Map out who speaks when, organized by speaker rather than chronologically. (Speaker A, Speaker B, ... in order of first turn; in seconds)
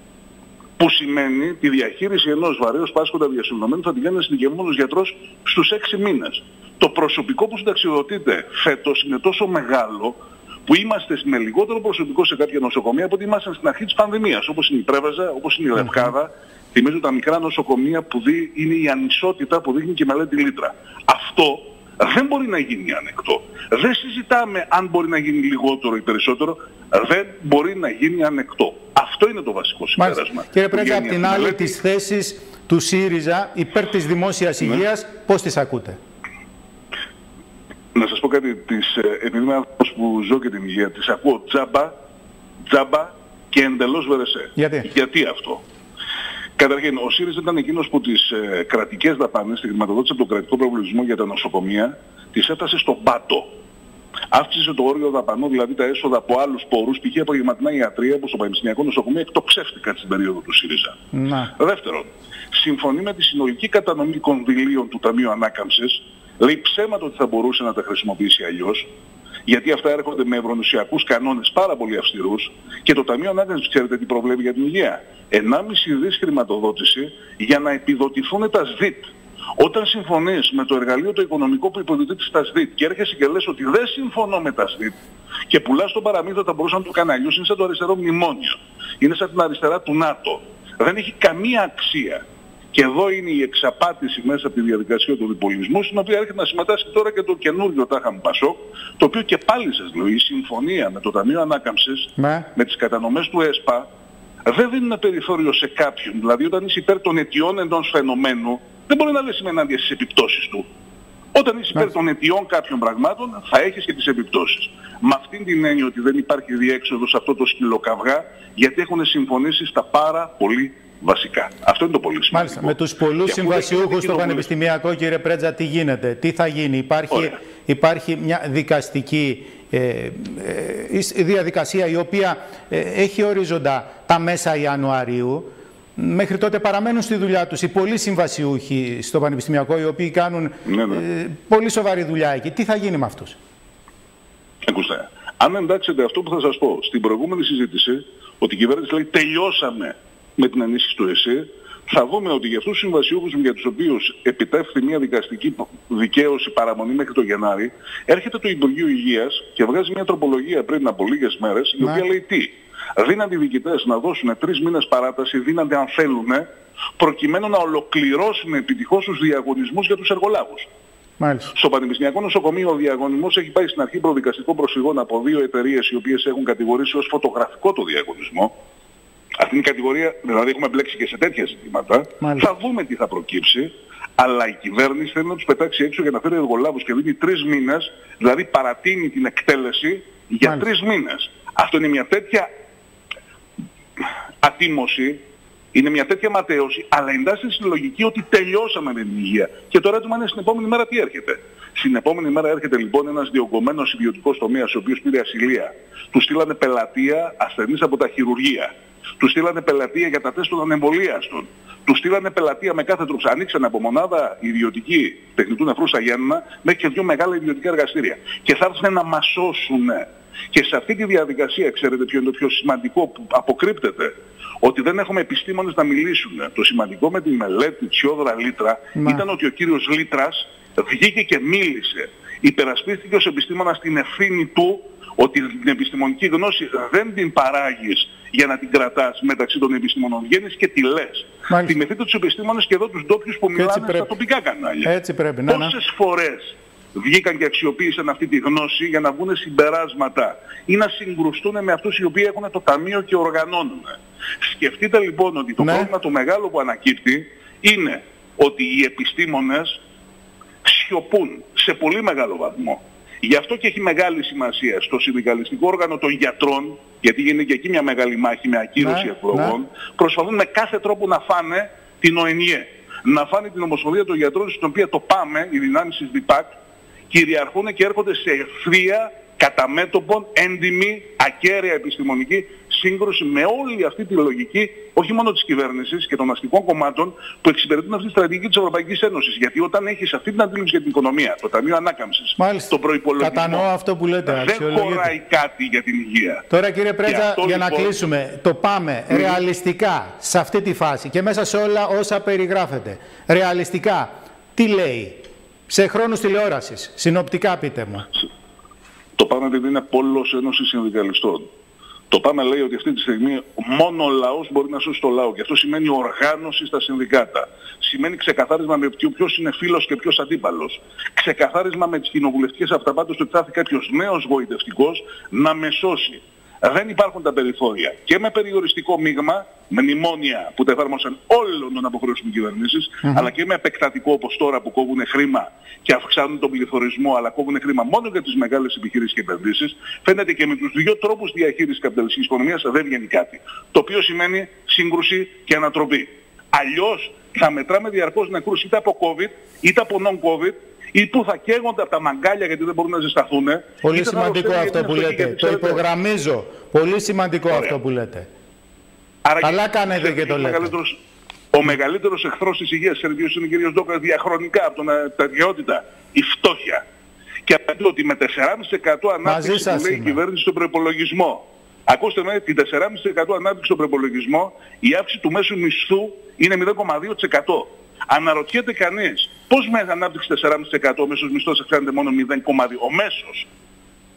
Speaker A: 0.8-31.8, 37.9-41.9, 42.6-45.6, 46.6-53.5, 54.3-68.9, 69.5-85.0, 85.5-103.9, 104.4-110.7, 111.3-124.5, 127.1-127.4, 140.6-141.0, 144.6-170.7, 171.5-178.5, 179.4-192.5, 194.0-195.2, 195.7-244.9, 245.4-259.8, 260.6-276.6, 277.1-293.7, 294.2-296.5, 297.0-297.9, 299.1-299.4, 309.1-311.5, 312.1-355.8, 357.5-357.8, 359.2-361.0, 361.5-366.8, 367.4-383.5
Speaker B: 15.8-16.1, 30.0-36.0, 44.5-44.9, 61.1-61.5, 102.2-102.5, 122.3-143.4, 171.2-171.5, 182.2-182.5, 228.9-229.2, 241.5-241.8, 243.5-244.1, 244.8-245.7, 255.6-255.9, 268.8-269.5, 292.4-295.1, 296.5-308.1, 353.8-358.3, 359.4-360.7, 369.2-370.2